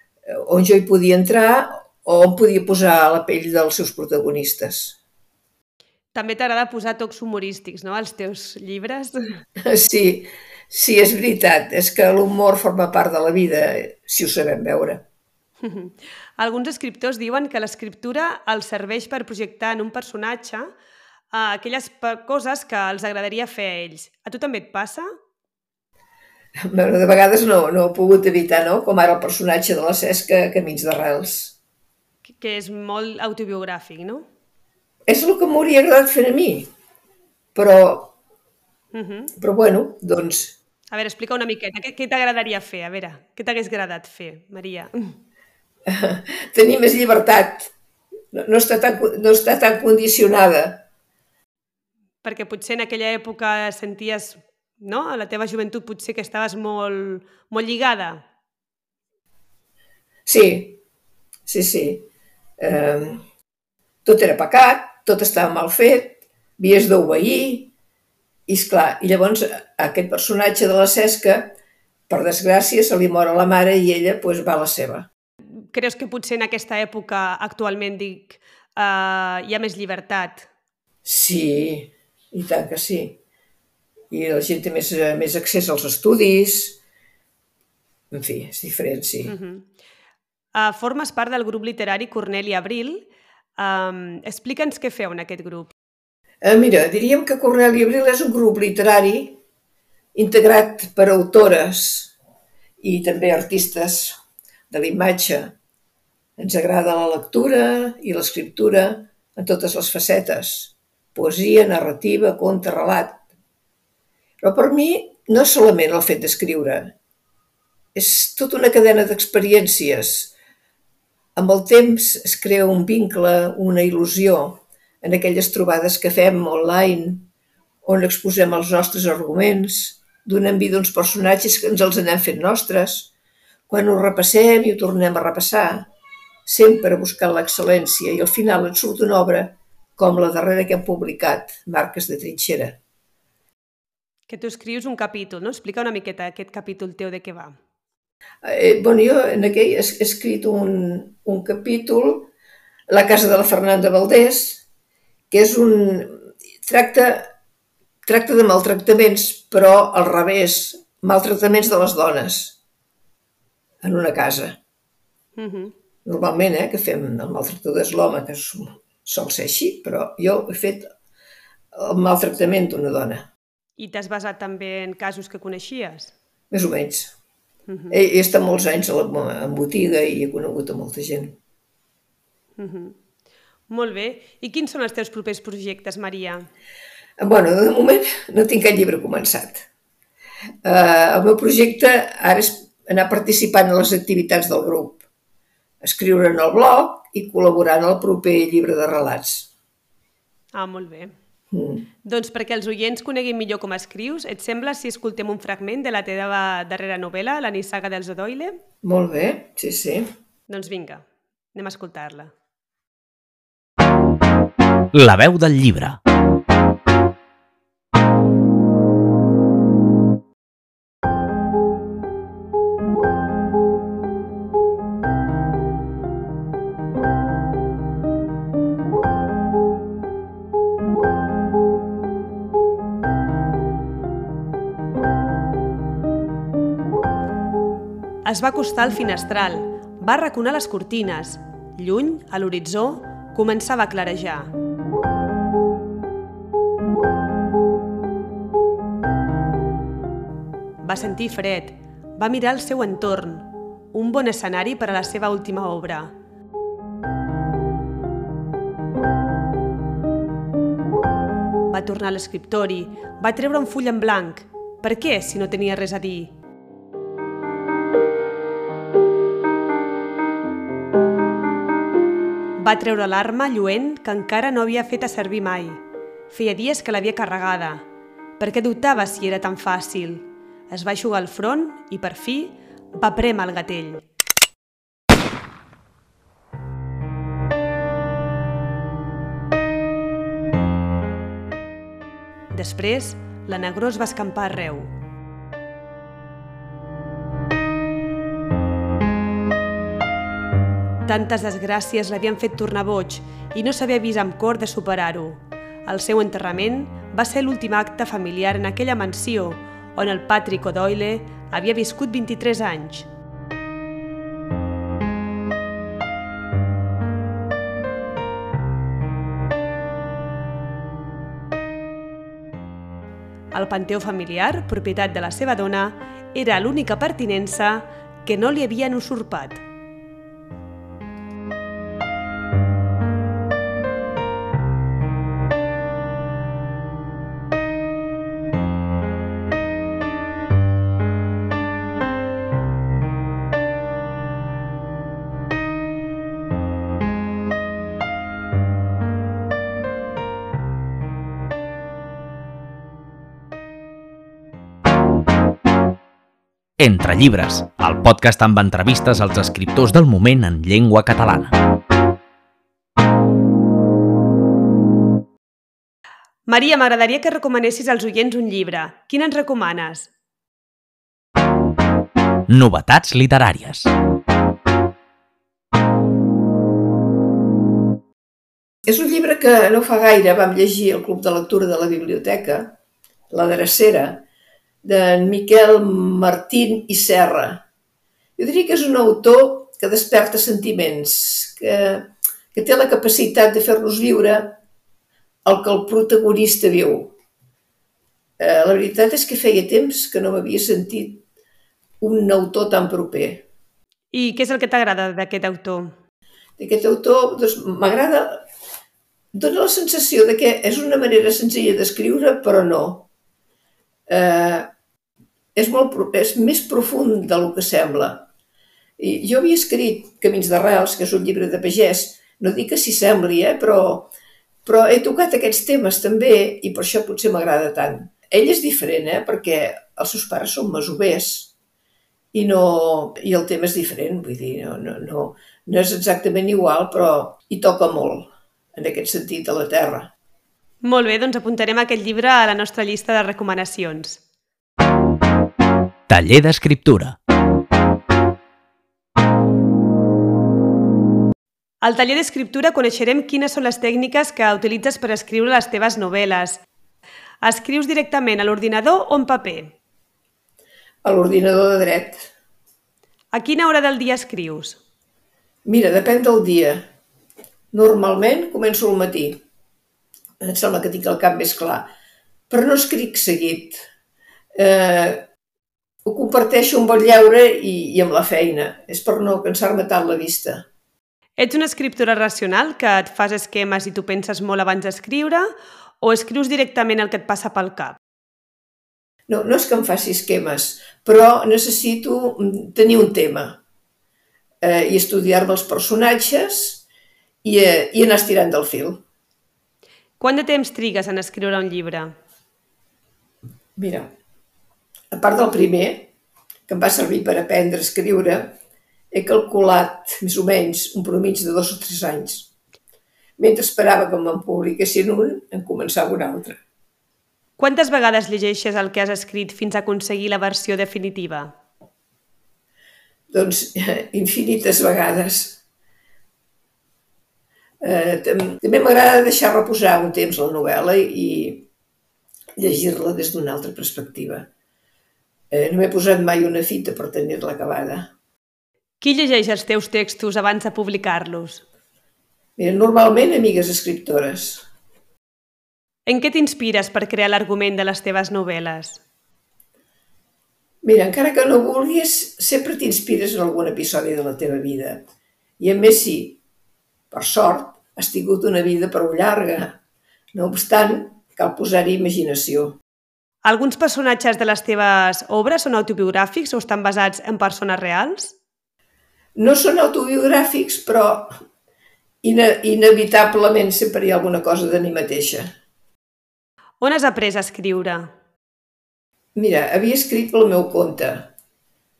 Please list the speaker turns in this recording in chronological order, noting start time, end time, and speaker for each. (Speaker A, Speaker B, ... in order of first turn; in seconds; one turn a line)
Speaker A: 0.3-5.0
Speaker B: 6.1-9.2
Speaker A: 9.7-15.0
Speaker B: 15.6-20.7
Speaker B: 21.3-25.1
Speaker A: 26.7-31.6
Speaker B: 32.2-34.2
Speaker A: 35.1-36.7
Speaker A: 37.5-38.1
Speaker B: 38.9-39.3
Speaker A: 39.4-40.5
Speaker B: 40.9-45.1
Speaker A: 45.9-47.7
Speaker A: 48.3-50.8
Speaker B: 52.2-58.2
Speaker A: 60.2-60.8
Speaker A: 61.5-62.1
Speaker A: 62.6-63.2
Speaker A: 64.0-67.7
Speaker A: 68.5-71.5
Speaker A: 72.1-75.1
Speaker B: 75.7-80.5
Speaker A: 81.0-83.2
Speaker A: 84.1-86.8
Speaker A: 88.1-89.3
Speaker B: 89.3-89.7
Speaker B: 90.5-93.1
Speaker B: 93.6-95.7
Speaker A: 96.4-99.4
Speaker A: 100.1-102.1
Speaker A: 102.8-104.2
Speaker A: 104.7-105.5
Speaker A: 106.4-113.2
Speaker A: 114.4-116.9
Speaker A: 117.9-120.3
Speaker A: 121.3-127.3
Speaker A: 127.8-133.1
Speaker A: 133.7-135.9
Speaker A: 136.4-142.8
Speaker B: 144.3-147.5
Speaker A: 148.4-152.3
Speaker A: 152.9-154.6
Speaker A: 155.3-157.3
Speaker A: 158.1-162.6
Speaker A: 163.8-164.6
Speaker B: 165.3-165.7
Speaker A: 166.0-170.9
Speaker A: 171.7-173.3
Speaker B: 173.8-176.1
Speaker A: 176.5-177.1
Speaker B: 177.7-178.0
Speaker A: 177.9-181.4
Speaker B: 182.6-182.9
Speaker B: 183.7-186.4
Speaker A: 187.2-189.7
Speaker A: 190.6-195.0
Speaker A: 195.8-199.5
Speaker B: 200.5-201.1
Speaker A: 201.5-201.9
Speaker B: 202.0-208.6
Speaker A: 208.8-210.1
Speaker B: 210.5-212.3
Speaker C: 214.9-216.0
Speaker B: 238.2-244.5
Speaker B: 250.8-256.1
Speaker B: 261.7-266.3
Speaker B: 272.6-277.9
Speaker B: 278.4-284.0
Speaker B: 292.5-294.9
Speaker B: 301.0-313.1
Speaker B: 323.5-329.6
Speaker C: 356.8-361.5
Speaker B: 366.5-370.1
Speaker C: 372.5-373.9
Speaker A: 378.9-382.8
Speaker A: 383.3-384.2
Speaker A: 384.8-387.6
Speaker A: 388.4-394.6
Speaker A: 395.4-397.1
Speaker A: 398.4-401.2
Speaker A: 402.0-403.4
Speaker B: 404.1-405.9
Speaker A: 406.6-408.4
Speaker A: 409.3-413.1
Speaker A: 414.1-414.7
Speaker A: 415.5-418.3
Speaker A: 419.0-424.1
Speaker A: 424.6-431.5
Speaker A: 432.3-440.1
Speaker B: 440.8-444.2
Speaker C: 446.1-447.1
Speaker B: 451.8-456.6
Speaker B: 457.4-459.7
Speaker A: 461.0-462.3
Speaker B: 463.3-464.8
Speaker A: 465.6-466.8
Speaker A: 467.7-469.4
Speaker A: 470.4-471.9
Speaker A: 472.5-473.8
Speaker A: 474.5-475.3
Speaker A: 476.0-480.6
Speaker B: 481.4-485.4
Speaker B: 486.0-488.0
Speaker A: 489.3-493.6
Speaker A: 494.6-496.8
Speaker A: 497.4-499.0
Speaker B: 500.2-502.1
Speaker A: 503.8-504.1
Speaker A: 505.1-506.1
Speaker A: 506.7-508.5
Speaker A: 509.1-512.5
Speaker A: 513.4-516.6
Speaker B: 517.6-521.5
Speaker A: 523.3-525.6
Speaker A: 527.8-531.7
Speaker A: 532.6-534.5
Speaker A: 535.5-538.1
Speaker B: 539.0-541.6
Speaker A: 542.6-544.7
Speaker B: 546.1-549.0
Speaker A: 550.8-555.1
Speaker A: 555.6-556.4
Speaker A: 557.1-559.8
Speaker A: 560.3-562.8
Speaker B: 563.4-568.4
Speaker A: 569.4-571.3
Speaker A: 572.2-575.5
Speaker B: 576.8-578.1
Speaker A: 579.4-581.3